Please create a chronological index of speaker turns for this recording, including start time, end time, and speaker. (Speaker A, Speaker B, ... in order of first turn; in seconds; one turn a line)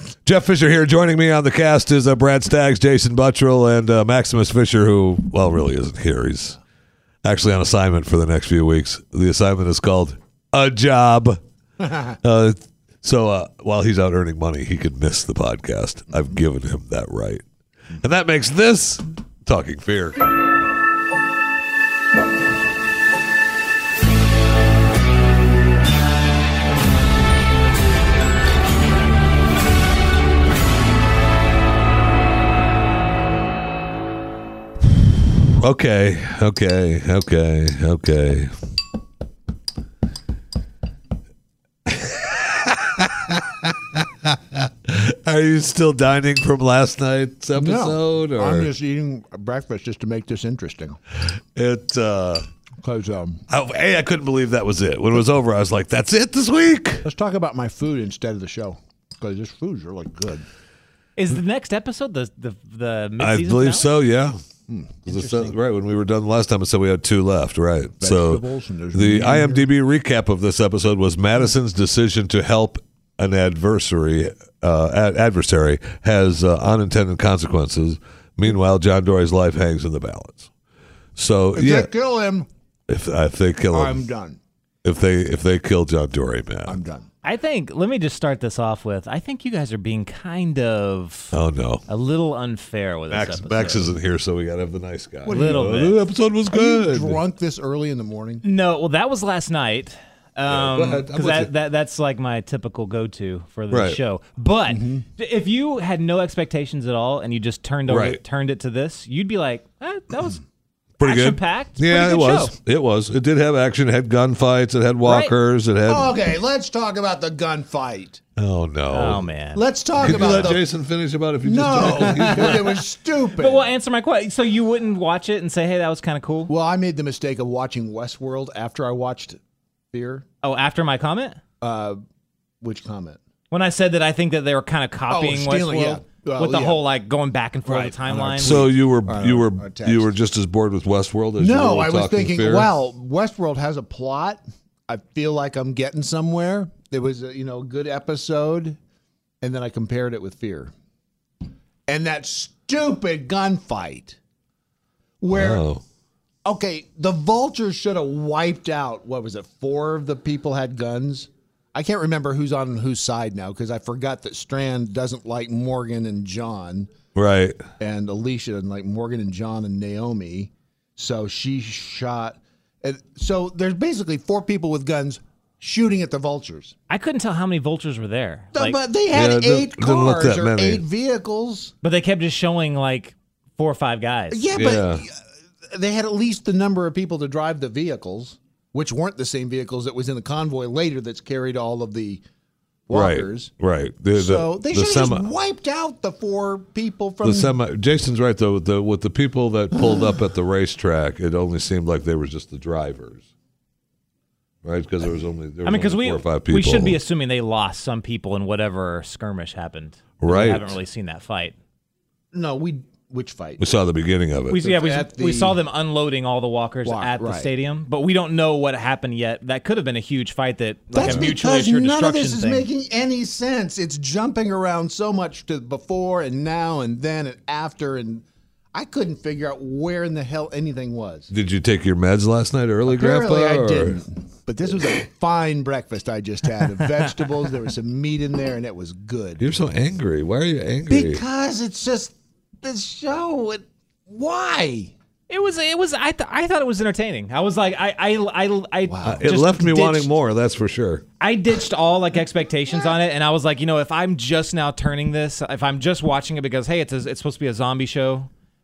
Speaker A: 0.2-6.6
Speaker A: 7.2-11.4
Speaker A: 11.9-17.4
Speaker A: 18.0-20.2
Speaker A: 35.5-38.5
Speaker A: 41.9-48.7
Speaker B: 47.5-51.0
Speaker A: 51.5-52.5
Speaker B: 52.8-53.4
Speaker A: 53.5-57.0
Speaker B: 57.0-60.4
Speaker C: 61.2-64.0
Speaker A: 63.2-64.4
Speaker B: 64.7-65.5
Speaker A: 65.0-80.5
Speaker B: 68.0-69.7
Speaker A: 81.2-81.9
Speaker B: 81.5-82.5
Speaker A: 82.9-84.0
Speaker B: 83.7-84.4
Speaker A: 84.8-86.8
Speaker B: 86.7-87.1
Speaker C: 87.2-91.3
Speaker A: 91.3-91.8
Speaker C: 91.9-93.9
Speaker A: 93.1-97.2
Speaker B: 95.2-95.7
Speaker C: 95.3-96.0
Speaker B: 96.5-98.4
Speaker C: 98.4-110.4
Speaker A: 100.5-101.5
Speaker A: 103.7-104.0
Speaker B: 104.7-105.0
Speaker A: 107.9-108.2
Speaker A: 111.0-116.1
Speaker C: 111.0-112.5
Speaker C: 115.0-115.3
Speaker B: 115.8-118.2
Speaker A: 118.4-119.3
Speaker C: 118.9-120.5
Speaker B: 119.5-120.7
Speaker A: 120.0-122.7
Speaker B: 121.4-123.7
Speaker C: 123.3-126.5
Speaker B: 126.5-129.4
Speaker B: 129.9-130.2
Speaker C: 130.4-131.4
Speaker B: 131.6-132.0
Speaker B: 132.6-133.2
Speaker C: 133.5-138.6
Speaker B: 135.1-136.8
Speaker B: 137.6-140.1
Speaker A: 138.4-142.7
Speaker B: 141.4-148.8
Speaker B: 149.4-150.7
Speaker B: 151.9-154.2
Speaker B: 155.2-155.6
Speaker A: 155.3-155.8
Speaker B: 156.4-166.9
Speaker A: 167.1-167.6
Speaker B: 167.8-176.7
Speaker C: 176.9-178.8
Speaker B: 178.5-181.7
Speaker A: 179.1-180.8
Speaker C: 181.8-184.5
Speaker B: 184.3-185.2
Speaker A: 184.5-185.0
Speaker B: 185.7-192.2
Speaker B: 192.9-193.5
Speaker A: 192.9-195.3
Speaker B: 194.1-197.6
Speaker A: 197.2-203.3
Speaker A: 204.6-207.0
Speaker C: 205.6-211.6
Speaker A: 210.2-210.8
Speaker B: 212.3-213.6
Speaker A: 213.6-214.6
Speaker C: 214.5-222.7
Speaker B: 214.6-215.6
Speaker B: 216.8-217.5
Speaker B: 220.9-231.3
Speaker A: 221.0-221.3
Speaker A: 231.3-234.0
Speaker B: 232.8-239.4
Speaker A: 239.4-241.2
Speaker B: 240.9-244.9
Speaker C: 245.3-250.1
Speaker B: 248.9-249.3
Speaker A: 249.0-251.0
Speaker C: 251.2-258.3